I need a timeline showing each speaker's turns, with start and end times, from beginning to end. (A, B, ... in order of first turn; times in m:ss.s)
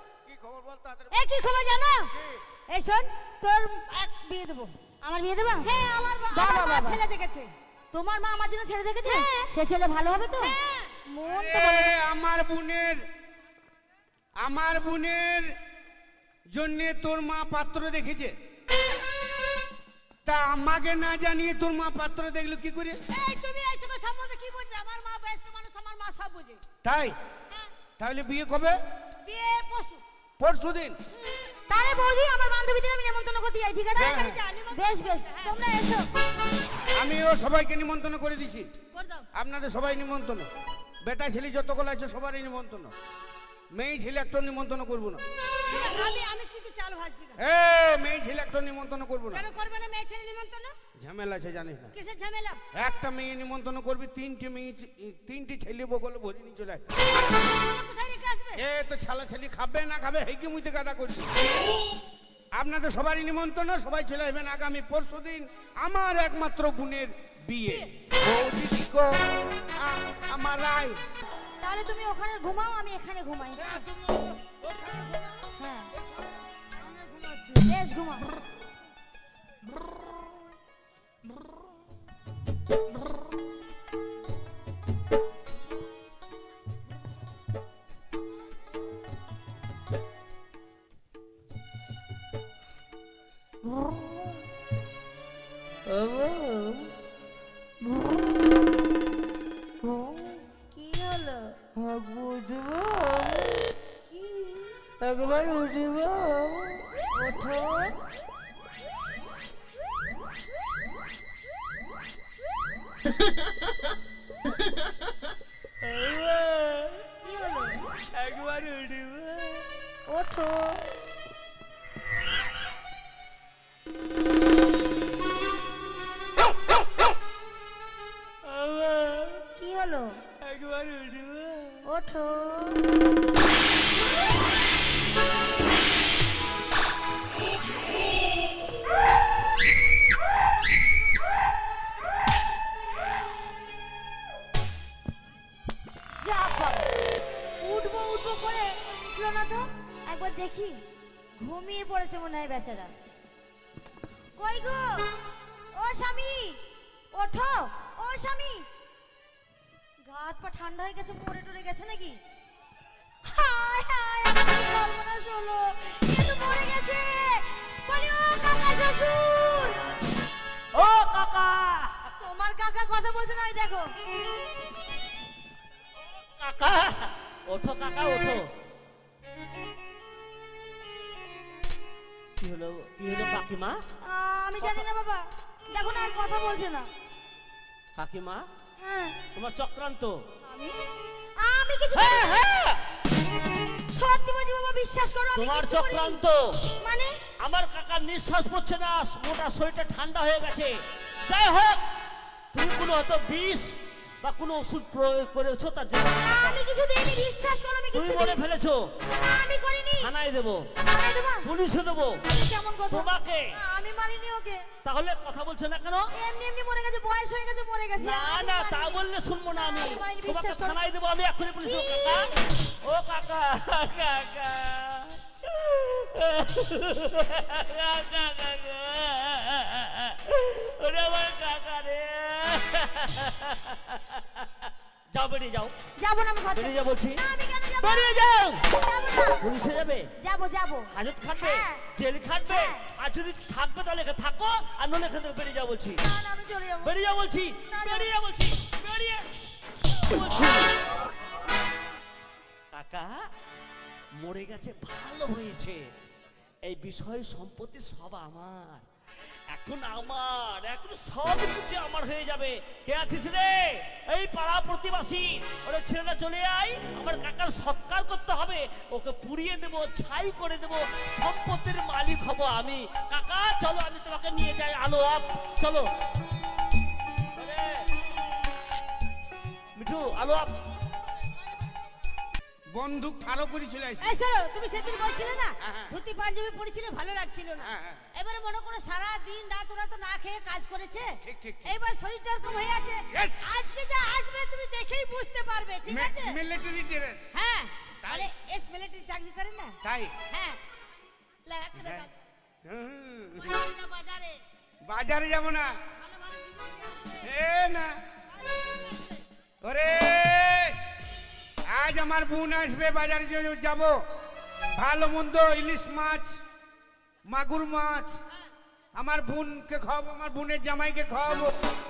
0:00.2-0:01.3 A
0:01.1-0:02.1 B
0:02.1-0:02.4 A
0:02.7-0:04.8 B
0:05.0-0:05.7 C
0:05.6-0:07.5 B
0:06.3-0:07.0 C
0:07.9-0:12.0 C
0:09.0-0:09.5 B
0:10.4-0:10.9 B
0:11.2-0:13.0 A
0:14.4-0:15.6 A
0:16.5-0:18.3 A
0:20.2-0:23.0 A
0:23.1-0:26.6 B
0:26.8-0:27.2 A
0:28.0-0:28.8 A
0:29.2-0:30.0 B
0:30.4-0:31.0 A
0:31.7-0:36.1 C
0:34.0-0:34.4 A
0:34.0-0:35.6 B
0:36.9-0:38.7 A
0:38.9-0:39.3 B
0:39.3-0:40.5 A
0:41.0-0:42.9 A
0:43.7-0:45.2 A
0:45.7-0:47.4 B
0:47.4-0:49.4 A
0:49.3-0:50.7 B
0:51.0-0:51.9 A
0:51.9-0:52.6 B
0:52.7-0:56.8 A
0:57.3-0:58.6 B
0:58.5-1:01.4 A
1:02.5-1:11.0 A
1:11.6-1:13.8 C
1:13.6-1:15.5 B
1:15.6-1:15.9 C
1:16.7-1:17.6 B
1:17.6-1:18.3 C
1:33.7-1:34.4 C
1:35.9-1:36.9 C
1:39.8-1:47.9 C
1:55.8-1:57.0 D
1:57.2-1:57.9 C
1:58.1-1:59.7 D
2:00.1-2:00.8 C
2:08.4-2:09.4 D
2:09.6-2:10.2 C
2:10.4-2:11.8 D
2:11.8-2:12.8 C
2:26.2-2:26.9 C
2:27.6-2:30.8 C
2:31.4-2:32.9 C
2:34.4-2:35.1 C
2:35.7-2:36.6 C
2:37.1-2:38.7 C
2:40.0-2:42.2 C
2:43.2-2:49.8 C
2:50.7-2:52.0 D
2:52.2-2:53.9 C
2:56.2-2:58.4 D
3:02.4-3:03.8 D
3:04.0-3:06.9 C
3:08.0-3:08.5 D
3:08.8-3:09.2 C
3:09.3-3:10.2 D
3:10.4-3:10.8 C
3:11.4-3:12.4 C
3:11.9-3:12.8 D
3:13.9-3:16.2 C
3:15.3-3:16.7 D
3:16.8-3:17.2 C
3:17.4-3:21.8 D
3:22.5-3:26.6 D
3:26.2-3:28.4 C
3:27.9-3:28.9 D
3:29.2-3:30.1 C
3:30.0-3:30.7 D
3:30.8-3:31.5 C
3:31.4-3:32.3 D
3:32.3-3:34.6 C
3:32.9-3:33.4 D
3:34.8-3:36.1 D
3:36.1-3:40.8 C
3:38.0-3:55.7 D
3:41.6-3:42.3 C
3:56.0-3:59.5 C
3:56.5-3:57.2 D
3:57.8-3:58.6 D
3:59.4-4:00.1 D
4:00.2-4:01.9 C
4:00.9-4:06.0 D
4:02.5-4:02.9 C
4:06.0-4:06.9 C
4:06.8-4:09.3 D
4:07.7-4:08.1 C
4:09.8-4:10.7 D
4:12.7-4:13.2 D
4:14.2-4:15.9 D
4:16.6-4:18.9 D
4:19.5-4:35.9 D
4:37.4-4:37.9 D
4:39.8-4:40.5 D
4:42.7-4:44.1 A
4:44.0-4:56.4 B
4:45.6-4:46.0 A
4:47.6-4:48.1 A
4:51.2-4:51.8 A
4:53.1-4:53.5 A
4:55.9-4:57.3 A
4:57.3-5:00.6 B
4:58.0-4:58.3 A
4:59.8-5:00.2 A
5:01.4-5:02.1 B
5:01.8-5:02.1 A
5:02.6-5:03.6 A
5:03.4-5:04.4 B
5:04.8-5:05.8 A
5:06.0-5:07.2 B
5:07.2-5:08.0 A
5:08.6-5:08.9 B
5:09.6-5:10.8 A
5:11.7-5:14.0 A
5:14.7-5:16.4 A
5:17.3-5:18.2 A
5:18.9-5:21.6 A